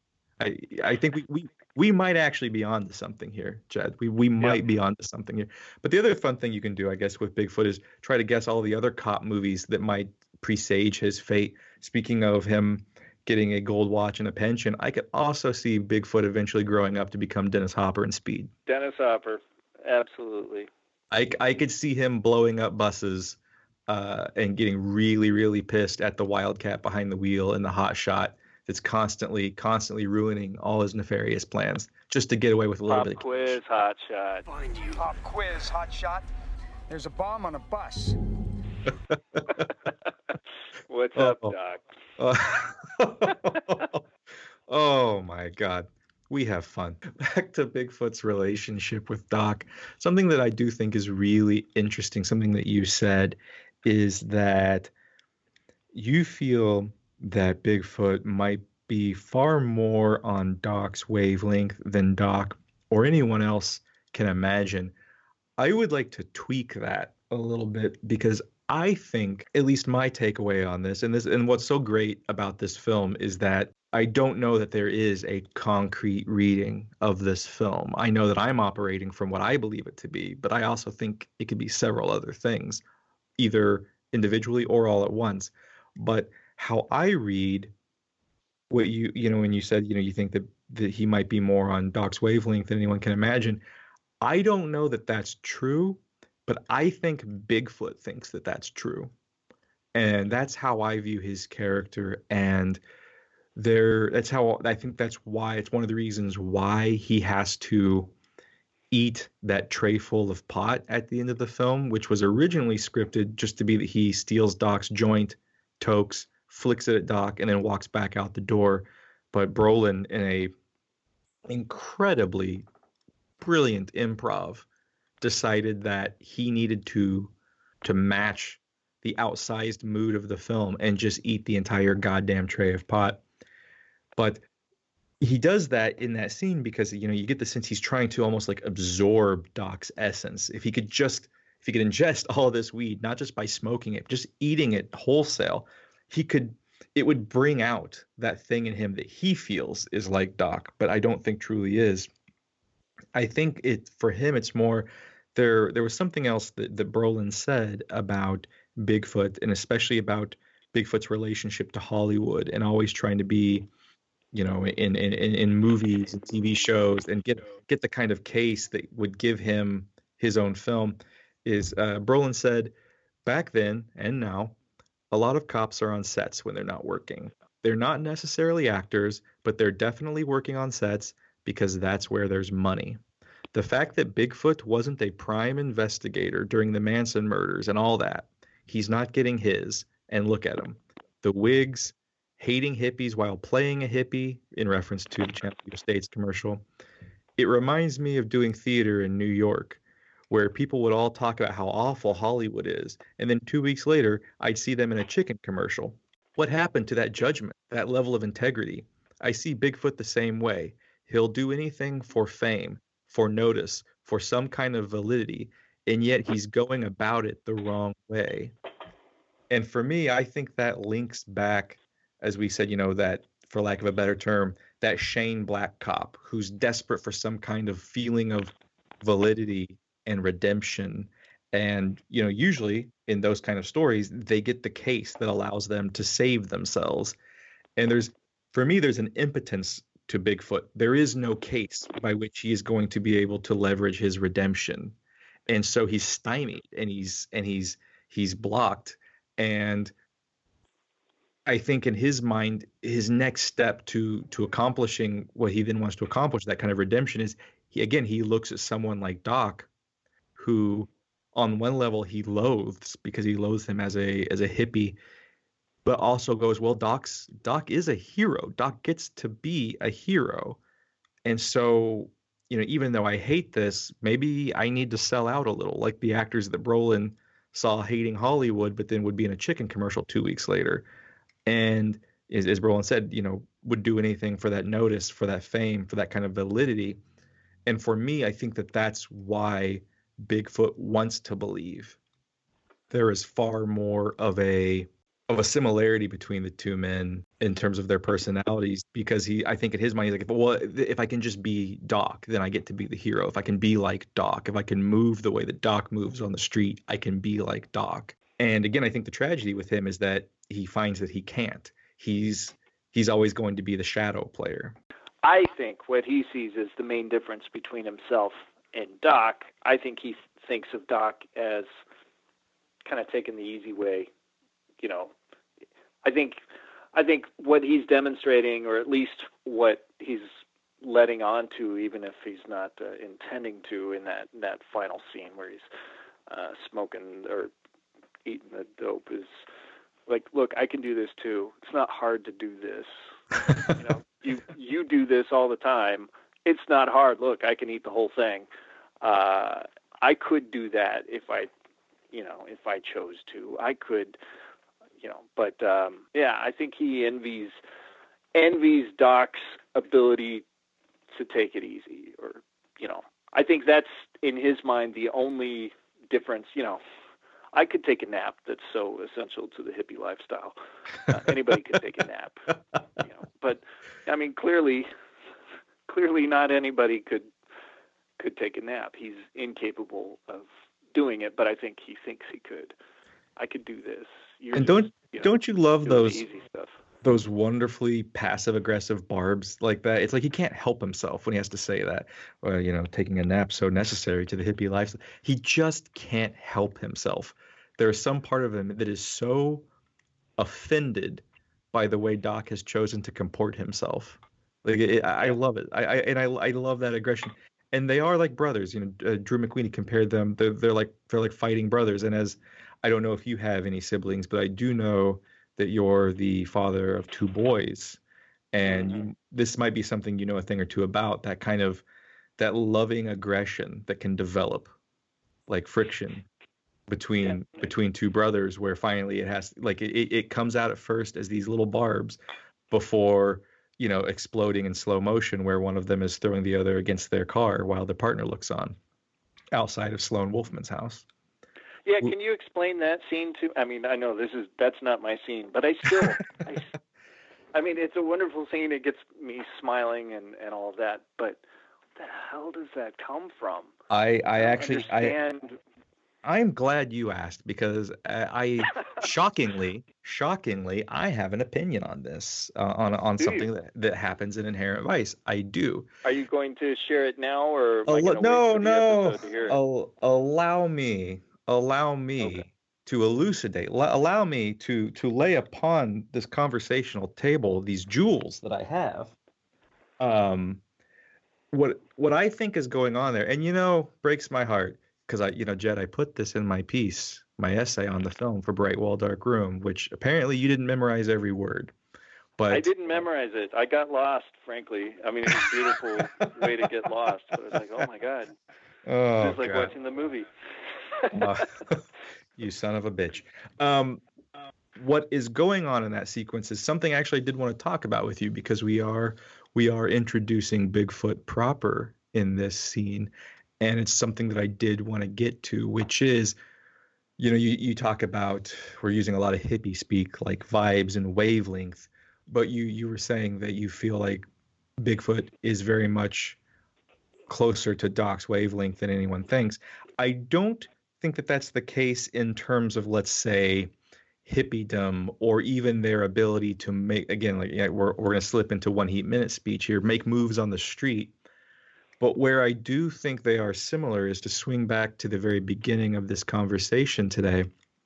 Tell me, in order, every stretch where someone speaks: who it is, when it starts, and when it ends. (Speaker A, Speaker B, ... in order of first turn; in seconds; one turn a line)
Speaker A: 0.4-18.5
Speaker B: 18.7-20.7
Speaker A: 21.1-23.4
Speaker A: 23.9-33.6
Speaker B: 32.9-34.4
Speaker C: 34.5-36.2
Speaker C: 36.9-38.1
Speaker B: 40.9-41.8
Speaker A: 41.1-41.5
Speaker A: 42.2-44.0
Speaker B: 43.3-43.5
Speaker A: 44.7-54.9
Speaker A: 55.9-64.9
Speaker A: 65.6-82.8
Speaker A: 83.4-87.7
Speaker A: 88.7-93.6
Speaker A: 94.2-99.1
Speaker A: 99.9-102.8
Speaker A: 103.5-108.1
Speaker A: 108.9-120.5
Speaker A: 121.5-122.6
Speaker A: 123.4-124.7
Speaker A: 125.2-133.2
Speaker A: 134.2-134.4
Speaker A: 135.2-152.1
Speaker A: 153.1-163.7
Speaker A: 164.3-172.7
Speaker A: 173.2-174.5
Speaker A: 175.1-183.0
Speaker A: 183.5-196.6
Speaker A: 197.4-218.5
Speaker A: 219.5-237.2
Speaker A: 237.8-244.9
Speaker A: 245.5-249.9
Speaker A: 251.4-259.7
Speaker A: 260.4-264.9
Speaker A: 265.8-270.6
Speaker A: 271.2-280.9
Speaker A: 281.4-287.0
Speaker A: 287.6-292.0
Speaker A: 292.9-314.8
Speaker B: 315.2-321.7
Speaker B: 322.8-324.1
Speaker B: 324.8-325.1
Speaker B: 326.0-326.4
Speaker B: 326.9-330.3
Speaker B: 330.8-335.6
Speaker B: 336.3-337.5
Speaker B: 338.2-339.4
Speaker B: 340.1-342.9
Speaker B: 343.7-348.5
Speaker B: 349.0-351.5
Speaker B: 352.1-354.2
Speaker B: 355.0-357.6
Speaker B: 358.3-360.4
Speaker B: 361.1-366.8
Speaker B: 367.5-372.4
Speaker B: 373.0-374.9
Speaker B: 375.9-377.3
Speaker B: 378.2-382.8
Speaker B: 383.4-386.7
Speaker A: 384.5-386.2
Speaker A: 387.0-399.7
Speaker A: 400.4-418.0
Speaker A: 418.5-421.8
Speaker A: 422.4-424.7
Speaker A: 425.5-426.3
Speaker A: 426.9-432.2
Speaker B: 427.3-427.6
Speaker A: 432.7-438.8
Speaker A: 439.5-441.0
Speaker B: 441.9-446.7
Speaker B: 447.5-451.4
Speaker B: 452.0-453.7
Speaker A: 453.9-455.1
Speaker B: 454.4-455.6
Speaker A: 456.2-465.9
Speaker B: 463.2-463.5
Speaker B: 466.0-469.6
Speaker A: 467.9-479.1
Speaker A: 480.0-480.6
Speaker A: 481.5-491.7
Speaker A: 492.4-493.0
Speaker B: 492.5-498.3
Speaker A: 495.7-496.7
Speaker A: 498.9-499.7
Speaker B: 499.2-500.3
Speaker B: 501.0-501.4
Speaker A: 501.1-501.8
Speaker A: 502.4-504.0
Speaker A: 504.8-516.4
Speaker A: 517.2-524.2
Speaker A: 524.8-526.4
Speaker A: 527.3-533.7
Speaker A: 534.2-541.1
Speaker A: 542.0-547.5